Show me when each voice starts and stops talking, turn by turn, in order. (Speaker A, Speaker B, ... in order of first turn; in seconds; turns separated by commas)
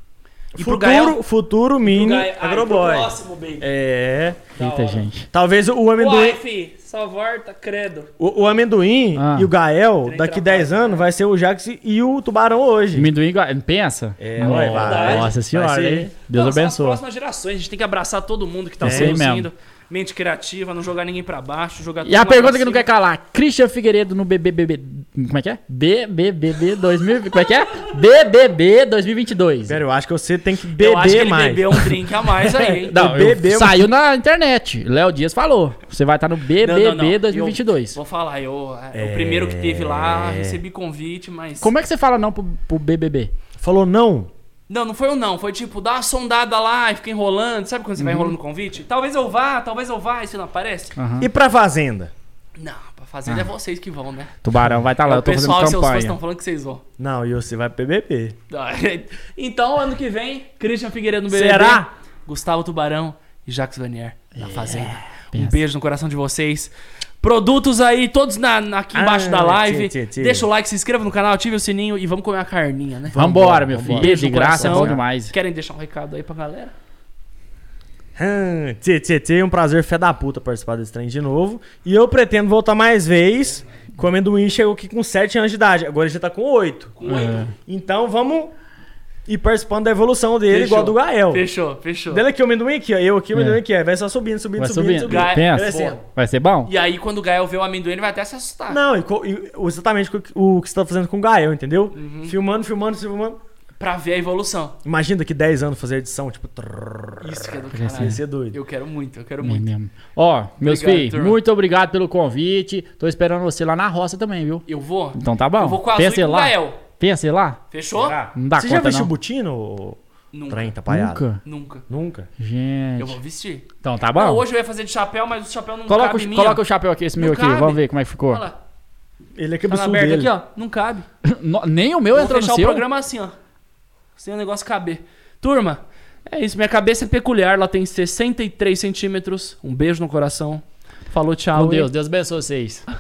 Speaker A: 0.6-1.2, Speaker B: 0.6-4.4, Speaker A: 1.9-3.7, Speaker A: 4.6-5.1, Speaker C: 4.6-5.3, Speaker B: 5.3-6.4, Speaker A: 6.0-8.1, Speaker B: 8.2-13.1, Speaker C: 9.2-9.5, Speaker A: 10.1-11.1, Speaker C: 12.9-17.0, Speaker B: 14.2-16.1, Speaker A: 14.4-15.3, Speaker A: 16.3-22.9, Speaker C: 18.8-19.5, Speaker B: 18.8-19.2, Speaker C: 22.0-29.8, Speaker B: 29.7-33.9, Speaker A: 30.8-33.0, Speaker C: 32.9-38.0, Speaker A: 36.6-41.7, Speaker B: 38.9-40.6, Speaker C: 41.6-43.3, Speaker B: 43.6-44.3, Speaker A: 44.7-51.0, Speaker C: 48.0-48.3, Speaker C: 51.0-51.3, Speaker B: 51.2-52.1, Speaker A: 52.6-54.4, Speaker C: 54.4-56.2, Speaker A: 55.0-56.8, Speaker B: 57.0-58.4, Speaker A: 58.5-76.7, Speaker B: 61.3-61.9, Speaker C: 64.4-65.6, Speaker B: 68.9-70.5, Speaker C: 73.1-75.3, Speaker B: 73.2-75.0, Speaker B: 78.2-87.0, Speaker A: 87.0-87.5, Speaker C: 87.0-87.5, Speaker B: 87.7-88.5, Speaker B: 89.3-91.5, Speaker A: 90.5-92.2, Speaker B: 92.1-96.0, Speaker C: 93.3-93.6, Speaker C: 94.6-96.7, Speaker A: 95.1-96.0, Speaker A: 96.7-98.8, Speaker B: 98.7-103.4, Speaker A: 102.0-102.3, Speaker A: 103.8-104.8, Speaker B: 104.8-108.6, Speaker A: 107.2-109.7, Speaker C: 107.7-108.2, Speaker C: 109.4-119.1, Speaker A: 110.6-111.4, Speaker A: 114.7-116.8, Speaker A: 117.7-118.2, Speaker B: 118.1-121.2, Speaker A: 120.3-120.8, Speaker C: 120.9-121.4, Speaker A: 121.4-121.8, Speaker B: 121.9-122.3, Speaker C: 122.4-123.2, Speaker A: 123.0-126.6, Speaker C: 123.8-124.4, Speaker C: 125.9-128.4, Speaker A: 127.2-128.6, Speaker B: 129.4-130.4, Speaker A: 129.7-131.1, Speaker C: 131.2-132.8, Speaker A: 132.1-133.4, Speaker A: 134.2-141.9, Speaker C: 141.5-142.8